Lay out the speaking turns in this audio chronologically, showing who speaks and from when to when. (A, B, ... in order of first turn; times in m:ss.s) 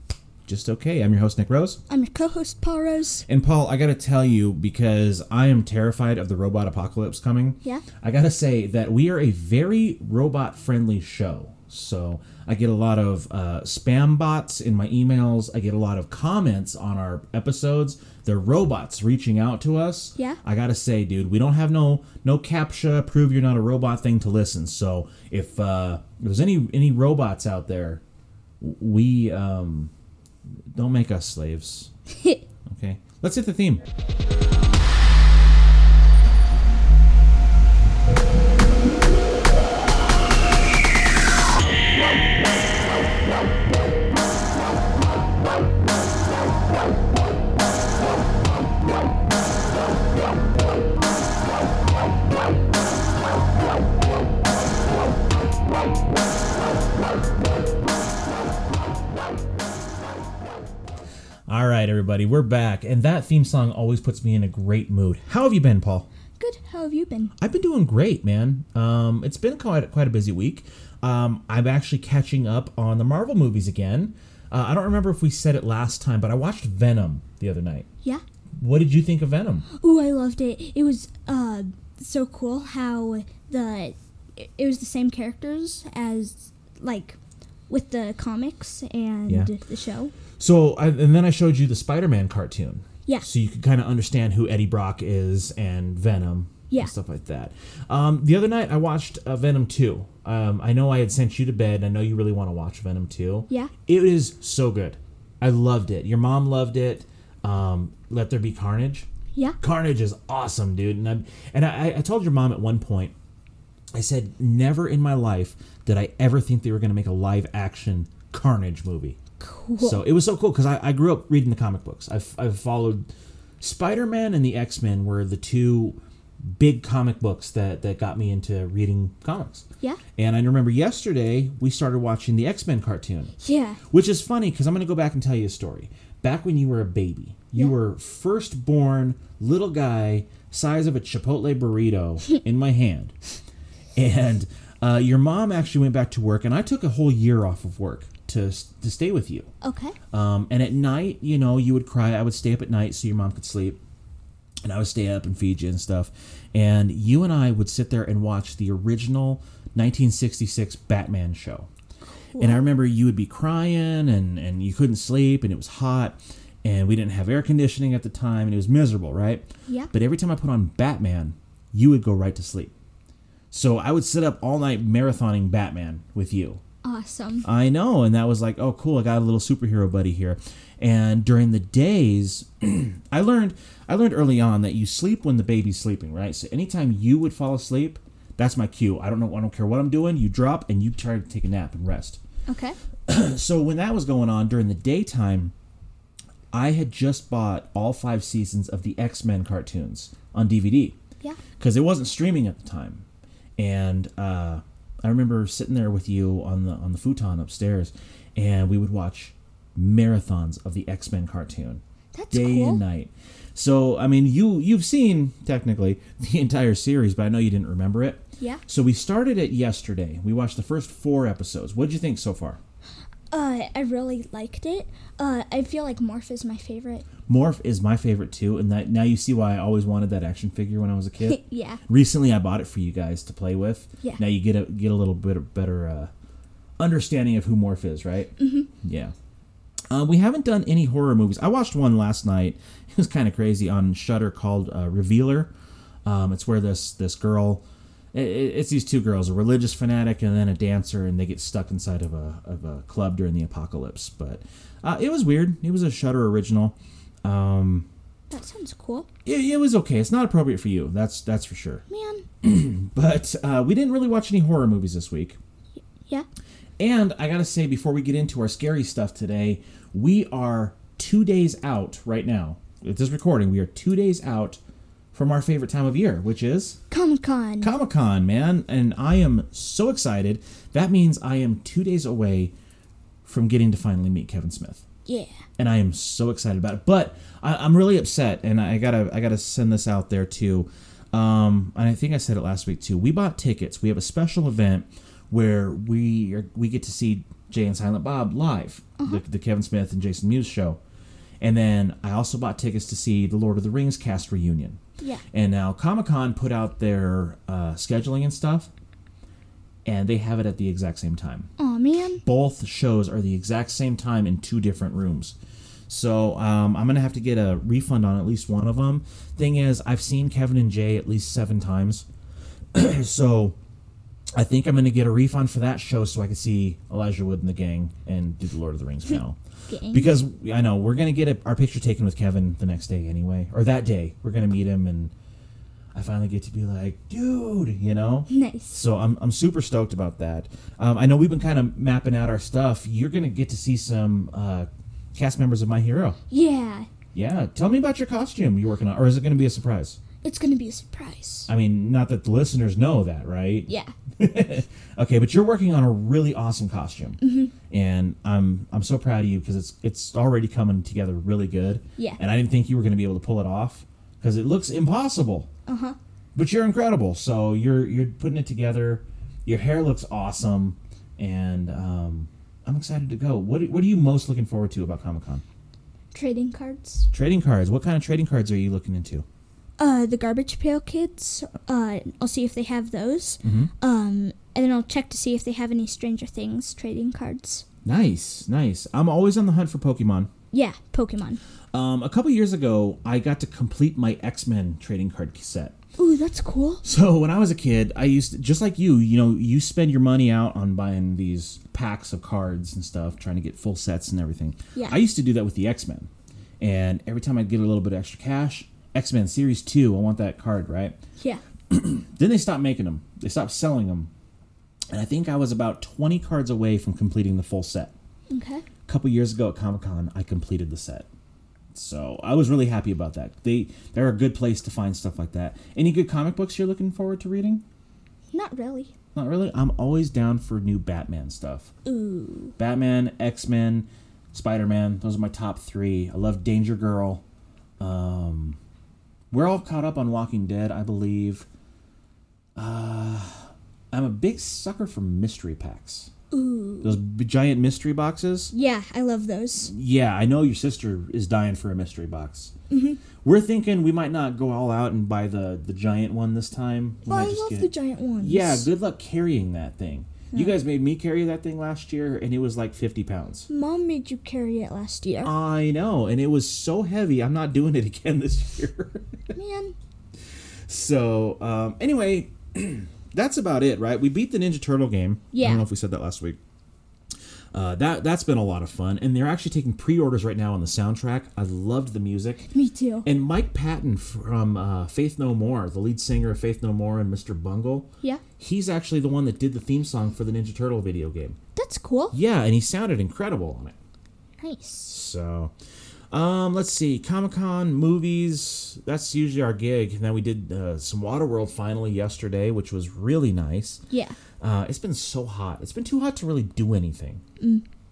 0:00.4-0:01.8 A
0:01.9-0:03.2 B
0:03.2-0:28.0 A
0:28.6-0:29.9 A
0:30.7-0:31.9 A
0:32.1-0:32.4 B
0:32.6-0:33.8 A
1:01.5-1:06.1 A
1:06.4-1:07.3 B
1:07.4-1:17.9 A
1:18.6-1:19.6 A
1:19.8-1:27.2 B
1:27.7-1:30.1 B
1:29.3-1:29.5 A
1:30.4-1:49.1 A
1:49.6-1:53.1 A
1:53.9-1:59.2 A
1:59.4-2:00.0 B
1:59.8-2:03.1 A
2:03.6-2:06.0 A
2:06.5-2:09.6 A
2:10.2-2:13.3 A
2:13.4-2:13.8 B
2:13.9-2:23.1 A
2:24.0-2:29.5 A
2:29.6-2:30.0 B
2:30.1-2:33.8 A
2:34.6-2:41.7 A
2:42.3-2:42.6 B
2:42.4-2:52.7 A
2:53.5-2:56.6 A
2:56.8-2:57.5 B
2:57.4-3:12.2 A
3:12.5-3:12.8 B
3:13.1-3:15.5 A
3:16.5-3:21.0 A
3:21.6-3:23.0 A
3:23.6-3:42.6 A
3:32.1-3:32.8 B
3:43.3-3:47.1 B
3:47.3-3:56.1 A
3:51.3-3:51.8 B
3:56.8-3:59.1 A
3:58.4-3:58.7 B
3:59.9-4:05.5 A
4:06.0-4:07.6 A
4:08.1-4:17.9 A
4:18.3-4:19.1 B
4:19.2-4:21.8 A
4:21.9-4:22.3 B
4:22.4-4:25.4 A
4:26.0-4:26.2 B
4:26.8-4:34.6 A
4:35.1-4:36.8 A
4:36.9-4:37.7 B
4:37.6-4:42.5 A
4:43.2-4:44.8 A
4:45.0-4:45.3 B
4:45.6-5:00.8 A
5:01.4-5:04.8 A
5:05.3-5:08.7 A
5:09.8-5:11.5 A
5:11.6-5:12.2 B
5:12.2-5:15.4 A
5:15.9-5:22.0 A
5:22.7-5:23.5 A
5:24.3-5:29.4 A
5:29.7-5:30.1 B
5:29.9-5:35.1 A
5:35.9-5:46.2 A
5:38.3-5:38.7 B
5:46.3-5:46.9 B
5:47.1-5:50.0 A
5:50.2-5:51.5 B
5:51.5-6:05.5 A
5:53.7-5:53.9 B
5:57.2-5:57.5 B
6:05.7-6:06.0 B
6:06.3-6:15.4 A
6:16.1-6:17.1 B
6:17.1-6:19.2 A
6:19.8-6:27.6 B
6:23.4-6:23.7 A
6:27.8-6:30.3 A
6:30.5-6:31.4 B
6:31.7-6:35.8 A
6:36.0-6:36.8 B
6:36.8-6:46.1 A
6:46.6-6:51.0 A
6:51.7-6:54.1 A
6:54.9-6:57.9 A
6:58.3-6:58.6 B
6:58.9-7:01.1 A
7:01.7-7:07.6 A
7:08.3-7:08.9 B
7:09.1-7:11.7 A
7:11.8-7:12.5 B
7:12.6-7:17.2 A
7:17.8-7:18.6 A
7:19.3-7:21.5 A
7:22.6-7:26.1 A
7:26.3-7:27.0 B
7:26.8-7:28.5 A
7:28.5-7:29.7 B
7:29.7-7:32.5 A
7:32.7-7:33.0 B
7:33.2-7:43.5 A
7:37.1-7:38.7 B
7:40.3-7:40.6 B
7:43.5-7:45.3 B
7:45.2-7:49.2 A
7:49.3-7:49.7 B
7:50.7-7:56.4 A
7:55.3-7:55.6 B
7:57.5-8:02.5 A
8:02.5-8:03.0 B
8:03.0-8:11.4 A
8:11.6-8:12.1 B
8:12.1-8:13.8 A
8:14.4-8:14.9 B
8:14.8-8:15.5 A
8:16.1-8:23.8 A
8:23.9-8:24.2 B
8:24.4-8:27.2 A
8:27.4-8:27.6 B